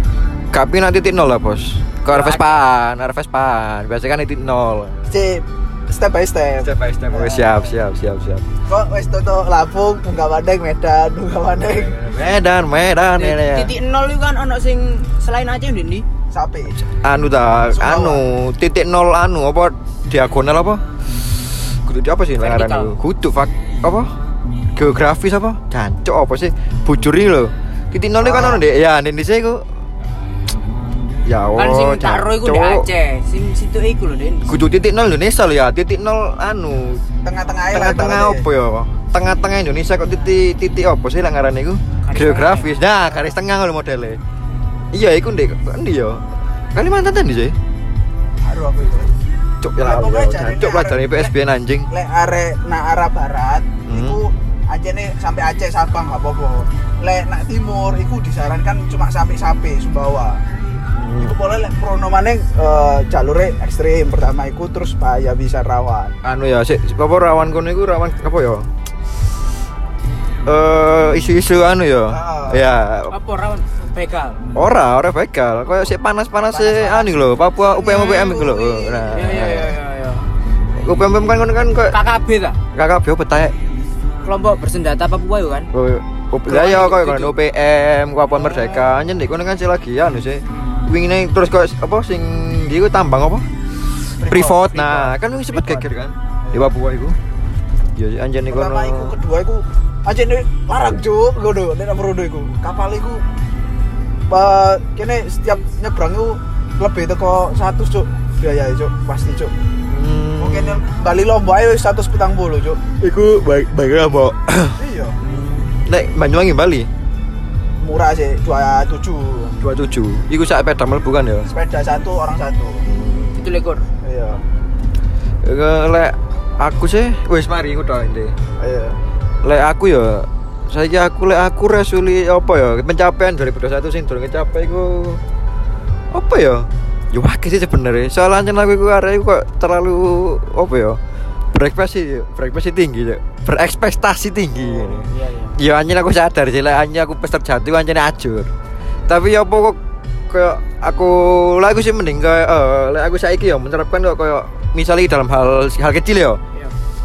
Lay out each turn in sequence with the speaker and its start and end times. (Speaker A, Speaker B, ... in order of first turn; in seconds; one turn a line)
Speaker A: 0.5-5.1
Speaker B: 2.1-2.6
Speaker B: 5.1-7.7
Speaker A: 6.6-8.4
Speaker B: 8.7-11.9
Speaker A: 11.5-13.7
Speaker C: 13.2-16.1
Speaker B: 16.3-16.8
Speaker A: 16.7-24.1
Speaker B: 17.7-18.2
Speaker C: 22.4-23.0
Speaker A: 24.7-29.6
Speaker B: 28.2-28.6
Speaker A: 31.2-32.9
Speaker C: 31.6-34.6
Speaker A: 34.5-37.0
Speaker B: 37.2-38.5
Speaker A: 37.7-44.2
Speaker C: 42.0-42.7
Speaker A: 44.9-47.6
Speaker B: 48.4-49.2
Speaker A: 49.6-51.9
Speaker B: 49.8-51.3
Speaker B: 51.9-60.4
Speaker A: 53.9-54.2
Speaker A: 61.0-61.3
Speaker B: 61.2-66.1
Speaker A: 66.2-68.7
Speaker A: 70.4-73.1
Speaker B: 72.1-72.7
Speaker C: 73.1-74.4
Speaker A: 74.5-79.7
Speaker B: 76.5-77.0
Speaker C: 76.6-76.9
Speaker B: 77.6-79.5
Speaker C: 77.8-78.2
Speaker C: 79.1-80.3
Speaker A: 80.8-82.0
Speaker C: 81.9-82.6
Speaker A: 82.7-83.5
Speaker C: 84.2-85.7
Speaker A: 85.7-93.5
Speaker C: 86.5-87.3
Speaker C: 88.5-88.9
Speaker B: 94.2-95.8
Speaker A: 94.2-97.2
Speaker A: 97.9-99.2
Speaker B: 98.5-103.2
Speaker B: 104.3-109.5
Speaker A: 109.9-110.8
Speaker B: 110.4-112.8
Speaker A: 113.0-114.8
Speaker B: 114.8-115.2
Speaker A: 115.3-116.9
Speaker B: 117.8-119.6
Speaker A: 119.6-121.5
Speaker B: 121.5-122.8
Speaker A: 122.8-123.4
Speaker C: 123.4-123.8
Speaker B: 124.0-124.4
Speaker A: 125.4-128.3
Speaker B: 128.6-129.0
Speaker A: 129.4-135.2
Speaker A: 136.1-141.0
Speaker A: 141.5-148.5
Speaker C: 144.6-145.6
Speaker A: 149.1-156.4